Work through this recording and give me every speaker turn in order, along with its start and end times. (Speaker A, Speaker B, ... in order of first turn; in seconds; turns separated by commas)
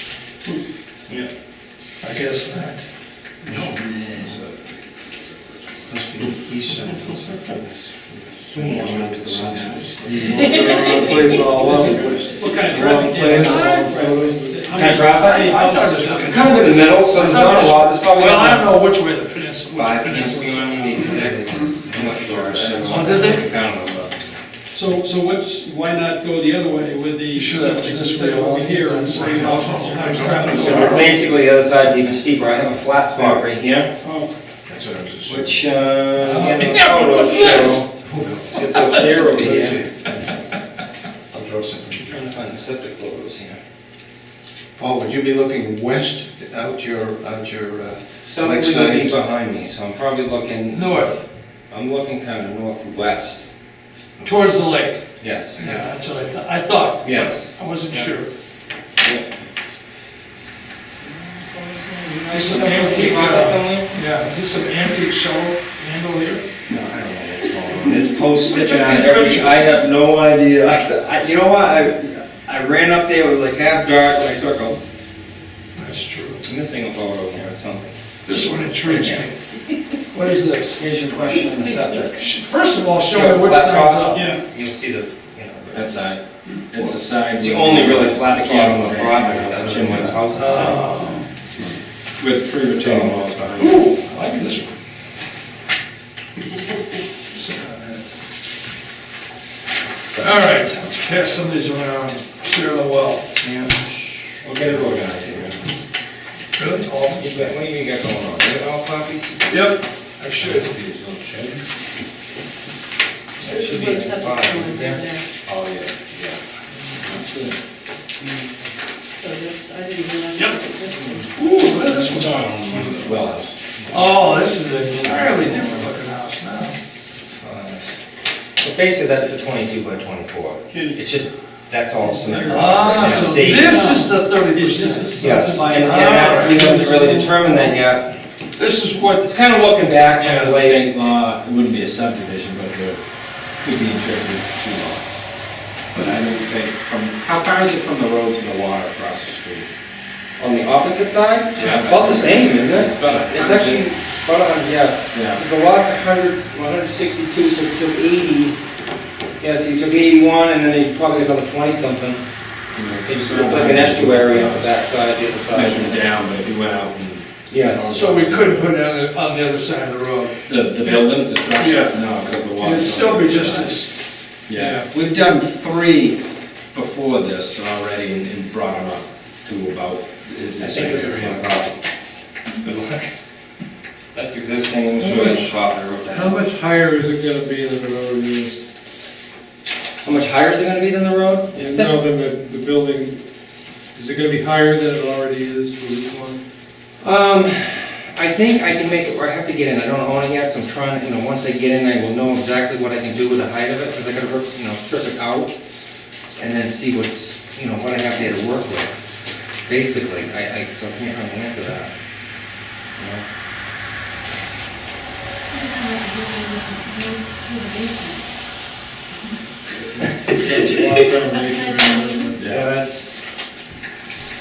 Speaker A: 2.0-2.8, Speaker B: 3.5-4.8, Speaker B: 5.9-7.8, Speaker C: 8.3-10.0, Speaker B: 8.6-10.4, Speaker D: 10.1-14.8, Speaker B: 11.0-12.4, Speaker E: 12.3-17.0, Speaker A: 12.4-13.9, Speaker C: 14.7-15.6, Speaker A: 15.3-21.4, Speaker C: 16.1-18.8, Speaker F: 16.4-17.0, Speaker C: 19.7-24.1, Speaker B: 21.5-22.9, Speaker E: 22.8-23.1, Speaker A: 22.9-23.5, Speaker D: 22.9-23.3, Speaker E: 24.7-31.2, Speaker A: 27.3-31.0, Speaker B: 30.2-30.7, Speaker F: 30.2-31.0, Speaker C: 30.4-33.9, Speaker E: 34.0-34.3, Speaker B: 34.7-35.8, Speaker C: 35.3-37.9, Speaker A: 36.2-37.9, Speaker B: 38.0-38.5, Speaker C: 38.5-39.8, Speaker A: 38.7-40.1, Speaker B: 39.1-40.1, Speaker B: 41.3-42.2, Speaker C: 42.0-43.6, Speaker B: 44.8-49.2, Speaker C: 48.2-51.1, Speaker A: 50.7-51.2, Speaker C: 51.7-53.5, Speaker A: 54.2-55.0, Speaker C: 55.2-55.6, Speaker A: 55.6-58.3, Speaker C: 57.0-58.1, Speaker C: 61.0-63.9, Speaker A: 62.3-66.5, Speaker C: 66.7-74.8, Speaker A: 68.5-69.7, Speaker A: 75.8-76.5, Speaker C: 76.4-78.0, Speaker A: 78.3-79.3, Speaker C: 78.8-79.3, Speaker A: 80.1-80.8, Speaker C: 80.8-82.2, Speaker A: 82.2-84.2, Speaker C: 83.0-86.0, Speaker E: 84.1-84.4, Speaker G: 85.7-90.8, Speaker C: 87.3-90.8, Speaker A: 90.4-91.2, Speaker G: 92.2-94.0, Speaker C: 92.7-93.5, Speaker A: 93.6-94.8, Speaker A: 97.3-98.0, Speaker C: 99.9-100.6, Speaker A: 100.2-103.3, Speaker C: 103.4-105.6, Speaker G: 104.5-105.4, Speaker A: 106.6-107.3, Speaker C: 107.2-109.5, Speaker A: 109.5-110.7, Speaker G: 110.4-111.6, Speaker C: 113.4-115.0, Speaker F: 113.5-115.2, Speaker G: 115.5-116.4, Speaker G: 117.0-117.5, Speaker F: 119.2-121.3, Speaker A: 120.3-120.7, Speaker A: 121.3-122.4, Speaker G: 121.4-124.3, Speaker A: 123.9-126.8, Speaker G: 125.0-125.5, Speaker F: 125.1-125.8, Speaker E: 125.1-125.8, Speaker C: 127.4-127.9, Speaker C: 128.6-134.0, Speaker E: 130.7-131.0, Speaker E: 132.0-137.8, Speaker F: 132.5-133.9, Speaker A: 132.6-136.7, Speaker C: 135.2-138.1, Speaker F: 135.3-135.9, Speaker A: 138.6-139.2, Speaker C: 139.1-141.0, Speaker G: 140.2-143.0, Speaker G: 143.6-145.2, Speaker G: 145.9-149.7, Speaker C: 150.4-158.6, Speaker G: 151.5-153.9, Speaker G: 155.1-155.4, Speaker C: 159.4-162.2, Speaker G: 162.7-164.7, Speaker C: 163.1-166.1, Speaker G: 165.5-168.7, Speaker C: 167.5-168.0, Speaker A: 168.0-171.0, Speaker G: 170.5-173.8, Speaker A: 171.6-172.0, Speaker A: 172.6-173.9, Speaker G: 174.5-176.2, Speaker A: 174.6-174.9, Speaker G: 176.7-181.7, Speaker C: 180.6-181.8, Speaker C: 182.6-183.1, Speaker C: 184.1-186.4, Speaker D: 185.0-185.5, Speaker D: 186.1-188.6, Speaker C: 190.0-192.0, Speaker D: 191.5-193.2, Speaker D: 193.9-196.4, Speaker C: 197.0-205.5, Speaker C: 206.4-208.9, Speaker C: 209.7-211.9, Speaker C: 213.0-213.2, Speaker F: 215.5-218.2, Speaker D: 219.7-222.4, Speaker F: 222.0-222.3, Speaker G: 222.4-222.7, Speaker C: 222.4-223.1